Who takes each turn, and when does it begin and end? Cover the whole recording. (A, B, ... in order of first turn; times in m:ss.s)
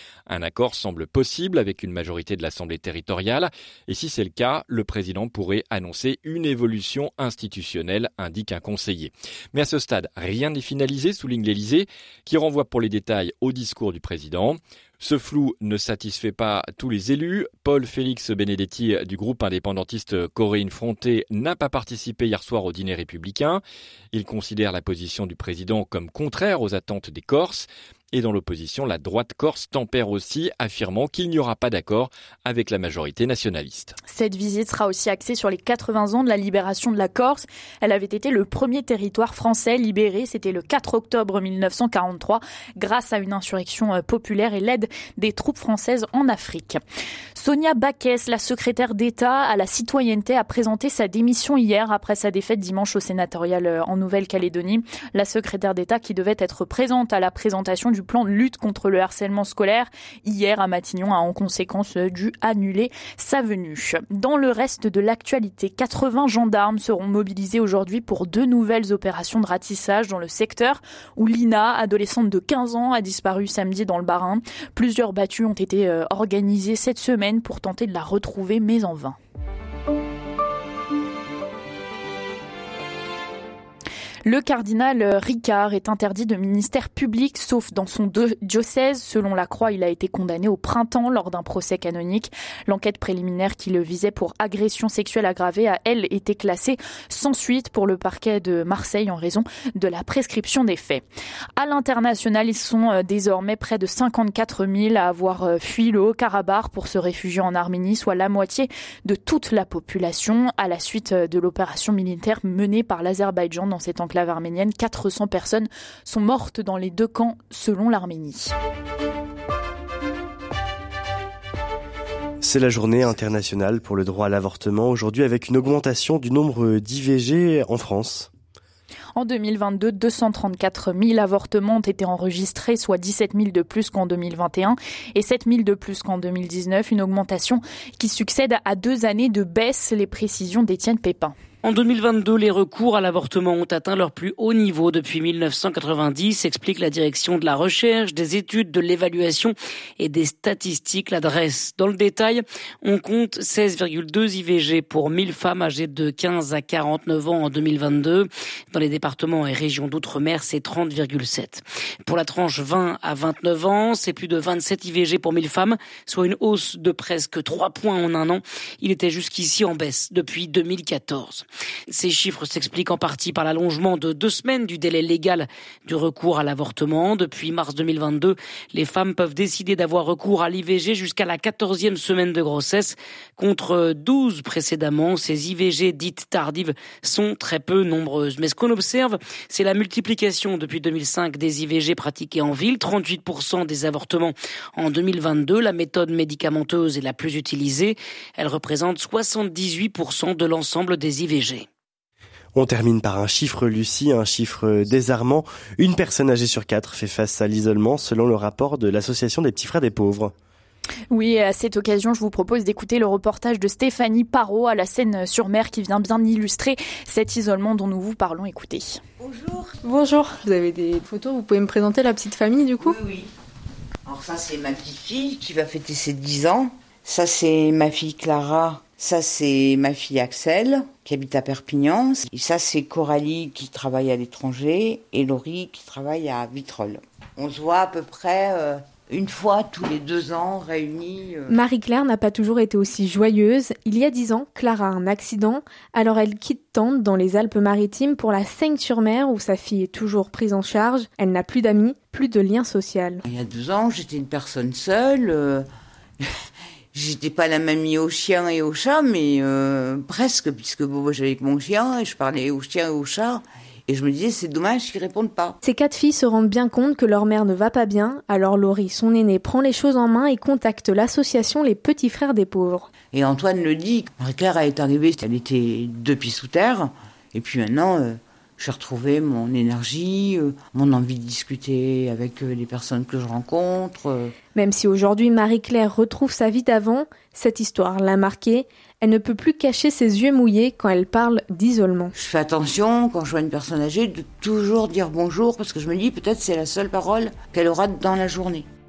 0:00.3-0:33.9 A
0:34.1-0:46.8 B
0:47.4-1:19.2 B
1:24.2-1:41.0 B
1:41.6-1:58.5 B
2:02.4-2:08.3 C
2:09.1-2:21.3 B
2:21.6-3:21.7 D
3:22.5-3:30.3 C
3:31.1-3:39.0 B
3:39.2-3:39.7 E
3:39.8-3:42.9 F
3:42.8-3:43.3 E
3:44.0-4:01.6 E
4:01.5-4:13.2 F
4:13.3-4:15.6 E
4:16.9-4:25.6 E
4:25.6-4:32.9 F
4:33.1-4:44.3 E
4:44.5-4:52.1 F
4:52.1-4:58.6 E